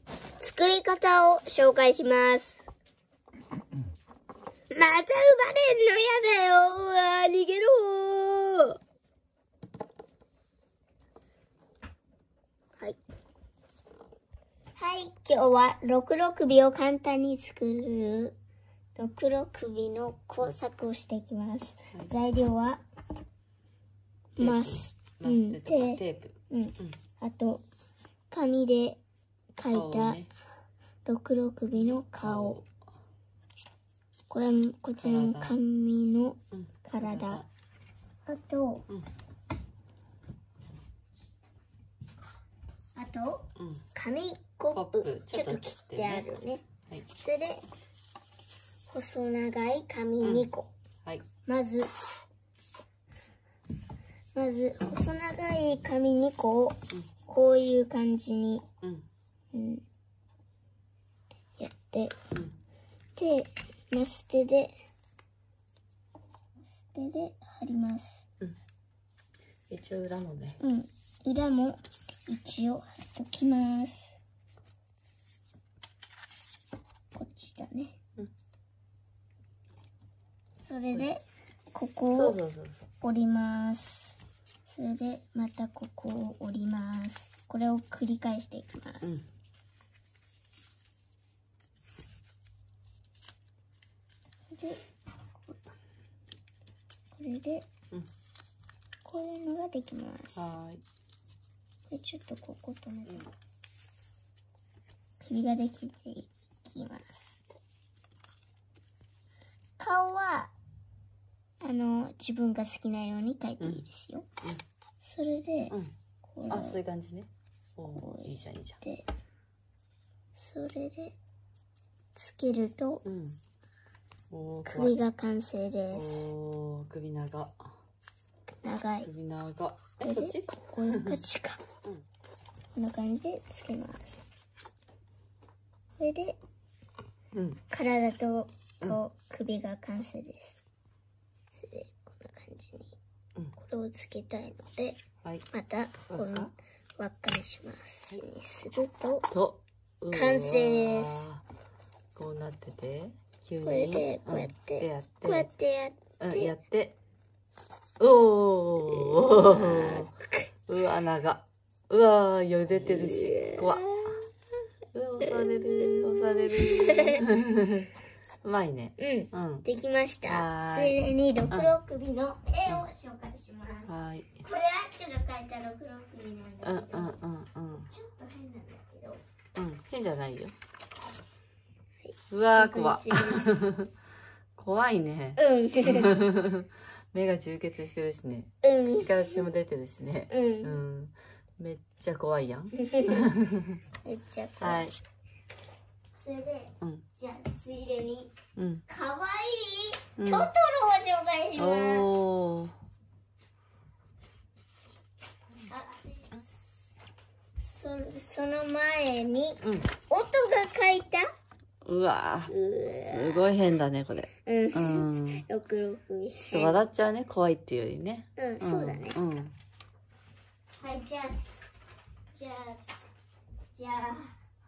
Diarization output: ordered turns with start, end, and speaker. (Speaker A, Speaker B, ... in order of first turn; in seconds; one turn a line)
Speaker A: 0.4-2.6
Speaker A: 4.7-8.8
Speaker A: 14.8-18.3
Speaker A: 19.0-22.8
Speaker A: 24.4-27.6
Speaker B: 24.4-26.9
Speaker A: 28.3-29.0
Speaker A: 29.6-30.2
Speaker B: 29.7-30.3
Speaker A: 31.1-32.6
Speaker B: 31.7-32.7
Speaker A: 34.3-37.4
Speaker B: 35.0-35.6
Speaker B: 36.5-37.5
Speaker A: 38.3-38.9
Speaker A: 43.0-47.6
Speaker B: 43.6-43.8
Speaker B: 44.7-46.3
Speaker A: 48.9-50.7
Speaker B: 50.2-50.5
Speaker A: 51.4-51.9
Speaker A: 54.3-58.6
Speaker B: 58.8-59.0
Speaker A: 59.5-59.8
Speaker A: 61.6-62.1
Speaker A: 63.1-64.8
Speaker A: 66.9-68.2
Speaker B: 69.7-70.6
Speaker A: 70.6-74.1
Speaker A: 77.1-77.9
Speaker A: 80.6-82.4
Speaker B: 82.1-82.8
Speaker A: 83.0-84.1
Speaker A: 84.7-89.0
Speaker B: 89.0-89.3
Speaker A: 94.5-94.8
Speaker A: 97.1-97.7
Speaker A: 99.0-100.5
Speaker B: 100.3-100.8
Speaker A: 101.9-103.3
Speaker A: 105.2-107.4
Speaker A: 109.8-110.5
Speaker A: 111.6-114.3
Speaker B: 113.6-113.8
Speaker A: 115.0-116.8
Speaker B: 116.5-118.8
Speaker A: 117.9-119.1
Speaker A: 120.3-121.2
Speaker A: 122.2-123.0
Speaker B: 123.0-123.4
Speaker B: 124.3-125.0
Speaker A: 124.7-126.3
Speaker B: 125.9-127.7
Speaker A: 128.6-129.1
Speaker B: 129.0-131.2
Speaker A: 130.0-131.6
Speaker A: 132.8-134.2
Speaker A: 136.0-136.4
Speaker B: 137.3-137.6
Speaker A: 137.7-140.6
Speaker A: 141.5-142.9
Speaker A: 143.6-145.0
Speaker A: 145.5-149.3
Speaker B: 146.1-146.5
Speaker B: 149.3-151.4
Speaker A: 150.1-151.2
Speaker B: 152.1-155.5
Speaker A: 153.6-156.5
Speaker B: 156.2-156.9
Speaker B: 158.0-160.1
Speaker A: 158.9-160.5
Speaker B: 160.7-164.2
Speaker A: 162.9-164.2
Speaker B: 164.9-167.9
Speaker A: 165.2-167.2
Speaker B: 168.4-169.7
Speaker A: 169.0-177.2
Speaker B: 170.2-171.0
Speaker B: 173.9-174.4
Speaker B: 176.6-177.9
Speaker A: 177.9-179.2
Speaker B: 179.6-180.6
Speaker A: 182.0-183.6
Speaker B: 182.3-183.9
Speaker B: 184.6-193.8
Speaker A: 185.4-186.1
Speaker A: 188.6-189.4
Speaker A: 190.3-190.8
Speaker A: 192.8-193.3
Speaker A: 194.0-194.9
Speaker B: 194.6-194.9
Speaker A: 196.2-198.3
Speaker B: 198.6-198.8
Speaker A: 198.9-202.1
Speaker B: 200.2-200.5
Speaker B: 201.6-202.7
Speaker A: 205.7-206.5
Speaker A: 207.6-211.2
Speaker B: 209.6-209.9
Speaker B: 211.8-212.5
Speaker A: 212.5-213.5
Speaker B: 213.1-215.4
Speaker A: 214.4-216.8
Speaker B: 216.5-219.6
Speaker A: 218.4-219.2
Speaker A: 220.8-221.6
Speaker A: 222.3-223.0
Speaker A: 223.7-224.3